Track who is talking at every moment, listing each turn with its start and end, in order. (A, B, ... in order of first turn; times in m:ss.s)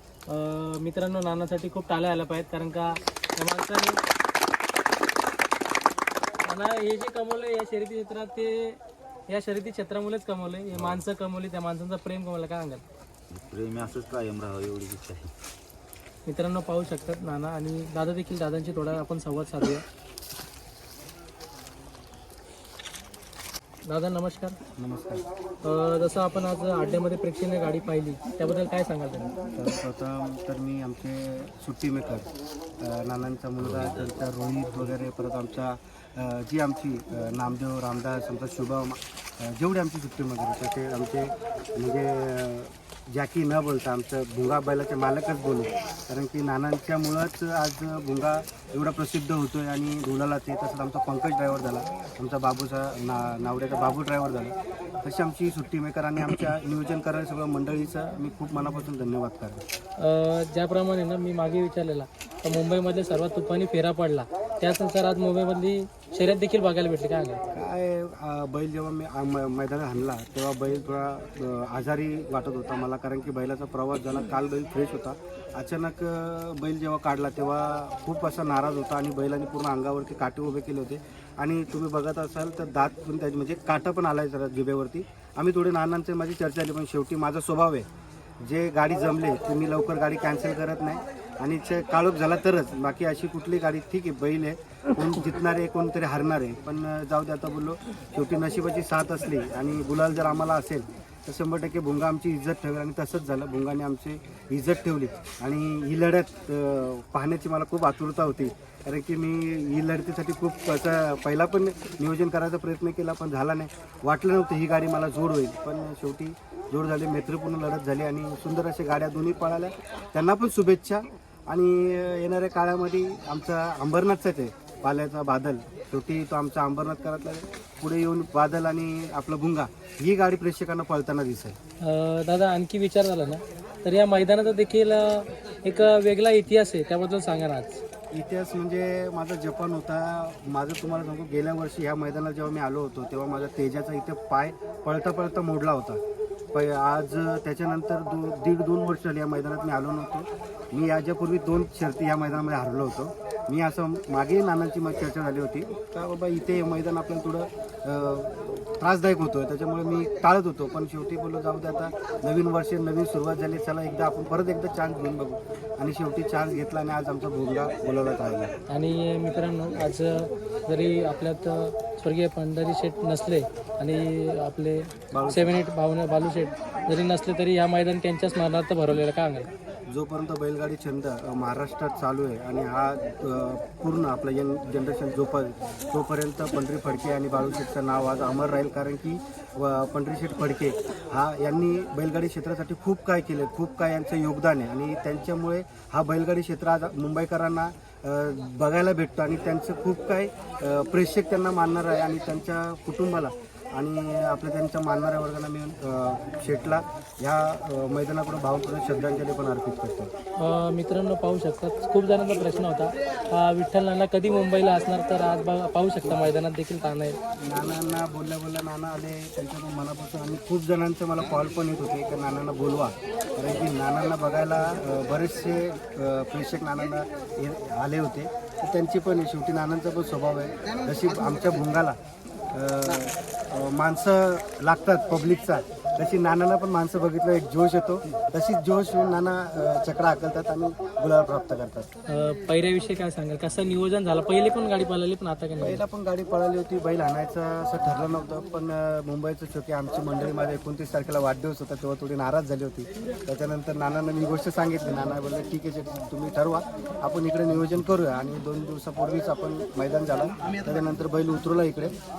0:00.3-0:04.0 A
0:06.4-0:08.8 A
0:09.3-0:10.5 A
0:10.7-0:11.0 B
0:11.1-0:12.8 A
0:13.3-0:15.3 B
0:16.3-0:19.8 A
0:23.9-0:24.5 A
0:24.8-0:25.2 C
0:25.6-0:29.3 A
0:29.6-0:32.3 C
0:32.8-0:59.6 C
0:33.6-0:34.1 B
1:00.0-1:07.4 A
1:07.5-1:27.8 C
1:28.4-2:11.6 C
2:11.8-2:17.8 A
2:18.1-2:26.0 C
2:26.5-2:48.5 C
2:48.7-2:50.2 A
2:50.7-2:54.8 A
2:55.1-2:55.6 C
2:55.7-2:59.5 A
2:59.9-3:30.1 C
3:30.4-3:37.2 A
3:36.0-3:36.3 C
3:37.4-3:52.0 C
3:52.5-4:01.9 C
4:02.1-4:05.6 A
4:05.6-4:21.9 C